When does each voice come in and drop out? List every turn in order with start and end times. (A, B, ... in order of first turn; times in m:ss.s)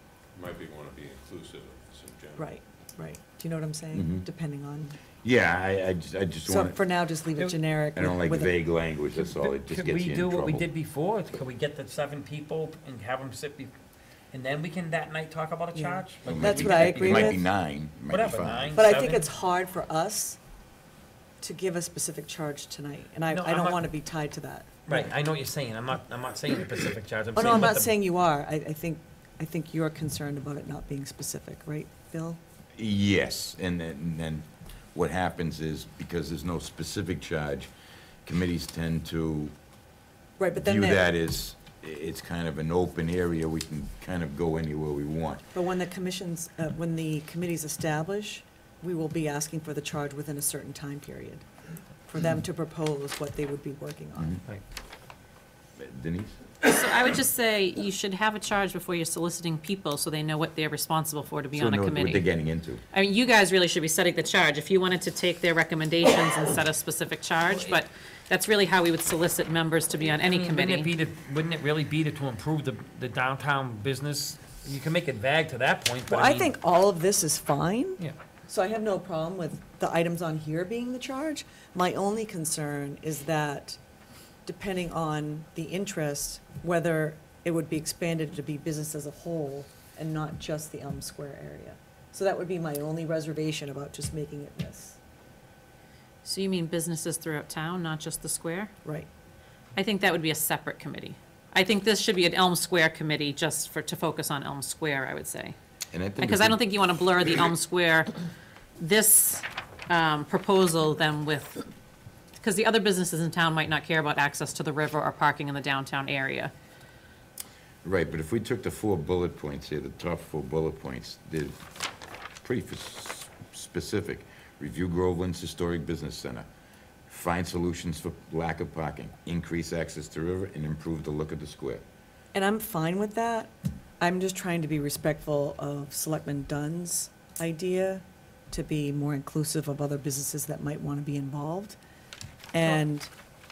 0:00.3-0:02.6 A
0:02.4-0:05.0 B
0:03.9-0:04.2 C
0:05.2-0:06.8 C
0:06.4-0:08.5 B
0:08.0-0:10.7 C
0:09.2-0:13.7 D
0:14.3-0:17.3 D
0:15.7-0:17.4 B
0:16.3-0:18.8 C
0:18.1-0:19.3 D
0:18.7-0:20.4 B
0:21.4-0:25.1 B
0:23.3-0:23.8 D
0:24.9-0:27.9 D
0:27.3-0:32.4 B
0:32.8-0:37.7 C
0:38.2-0:39.6 C
0:40.4-0:41.0 B
0:40.6-0:45.5 C
0:45.5-0:51.5 B
0:52.1-0:54.4 B
0:55.8-0:56.4 C
0:56.6-1:02.3 E
1:01.5-1:02.8 C
1:02.9-1:10.9 E
1:10.1-1:16.5 D
1:16.1-1:23.8 B
1:24.4-1:35.0 B
1:36.2-1:38.7 E
1:39.8-1:45.6 E
1:45.9-1:46.6 C
1:46.2-1:48.1 E
1:48.8-1:51.6 E
1:52.4-1:56.5 E
1:57.8-2:01.7 C
2:02.4-2:06.5 C
2:07.1-2:11.8 C
2:12.3-2:21.8 B
2:22.5-2:23.1 B